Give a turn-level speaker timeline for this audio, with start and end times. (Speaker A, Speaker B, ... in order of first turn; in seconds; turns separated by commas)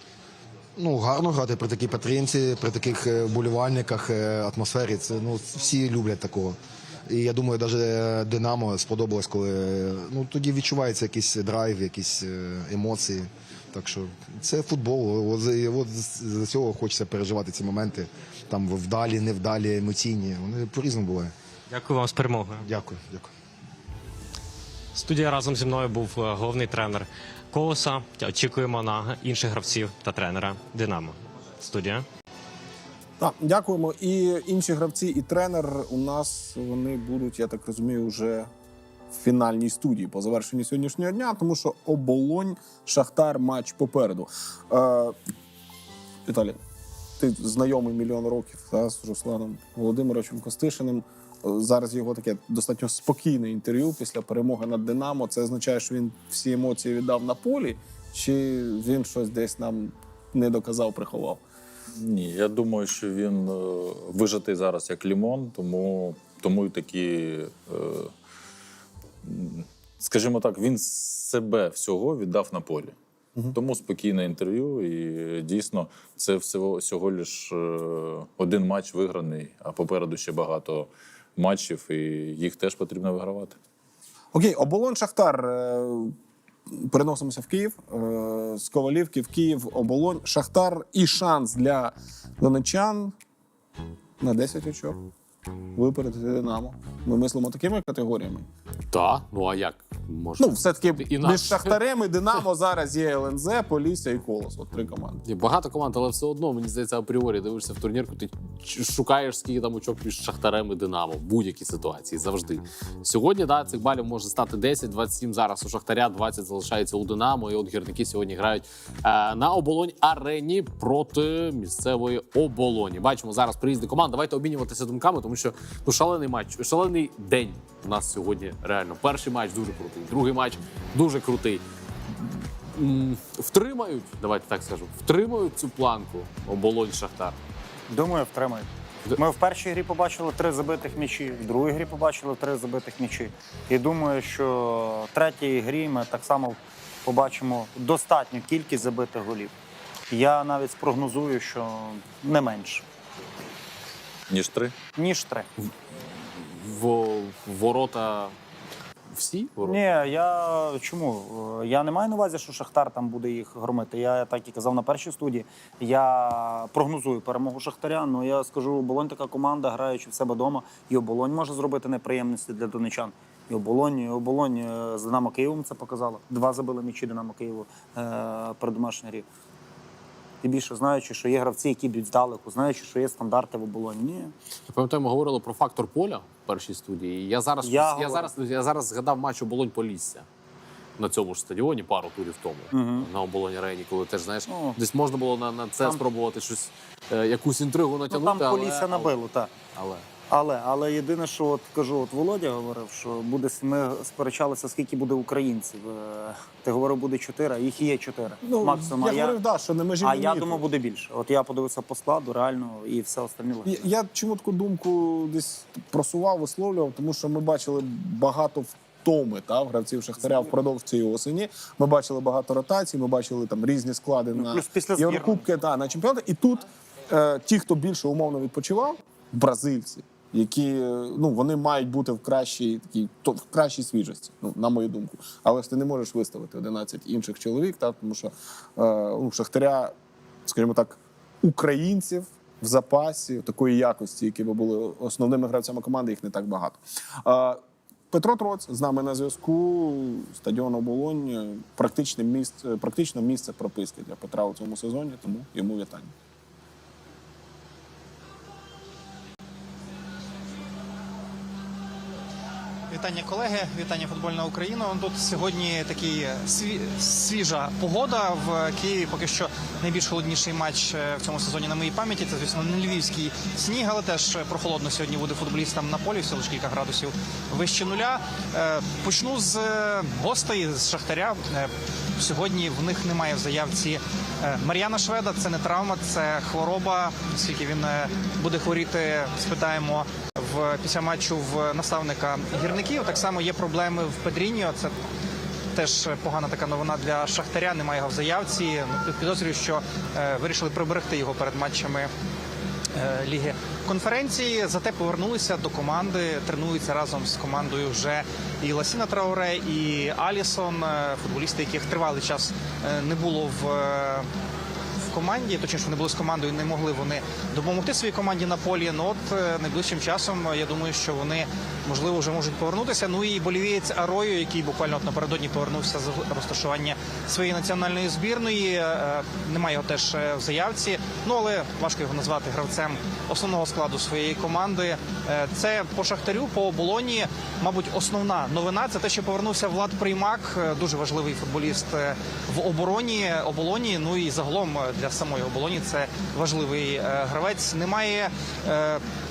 Speaker A: 0.8-6.5, Speaker A: 7.1-21.3, Speaker B: 21.7-22.6, Speaker A: 22.6-23.3, Speaker B: 24.9-32.0, Speaker C: 33.2-38.5, Speaker C: 39.1-45.1, Speaker C: 46.2-46.6, Speaker C: 47.2-61.4, Speaker D: 62.0-68.1, Speaker D: 69.2-72.9, Speaker D: 73.5-83.6, Speaker C: 84.3-86.1, Speaker C: 86.7-93.1, Speaker C: 94.2-95.0, Speaker C: 95.7-98.5, Speaker E: 98.9-101.8, Speaker C: 100.4-105.2, Speaker E: 105.2-137.4, Speaker F: 137.9-149.5, Speaker F: 150.1-152.8, Speaker D: 154.3-154.7, Speaker F: 154.9-155.5, Speaker E: 156.3-158.3, Speaker E: 159.1-159.8, Speaker F: 159.6-179.3, Speaker F: 180.4-184.3, Speaker E: 184.7-190.2, Speaker F: 187.6-188.3, Speaker E: 191.0-199.1, Speaker F: 192.7-193.1, Speaker F: 194.5-194.8, Speaker F: 198.1-199.5, Speaker E: 199.7-200.1, Speaker F: 200.2-209.4, Speaker C: 208.4-210.6, Speaker F: 210.0-213.9, Speaker C: 213.6-239.9, Speaker F: 220.2-220.5, Speaker F: 224.3-225.5, Speaker C: 240.4-256.1, Speaker G: 262.9-294.9, Speaker G: 295.7-302.1, Speaker G: 302.9-314.2, Speaker G: 315.1-349.0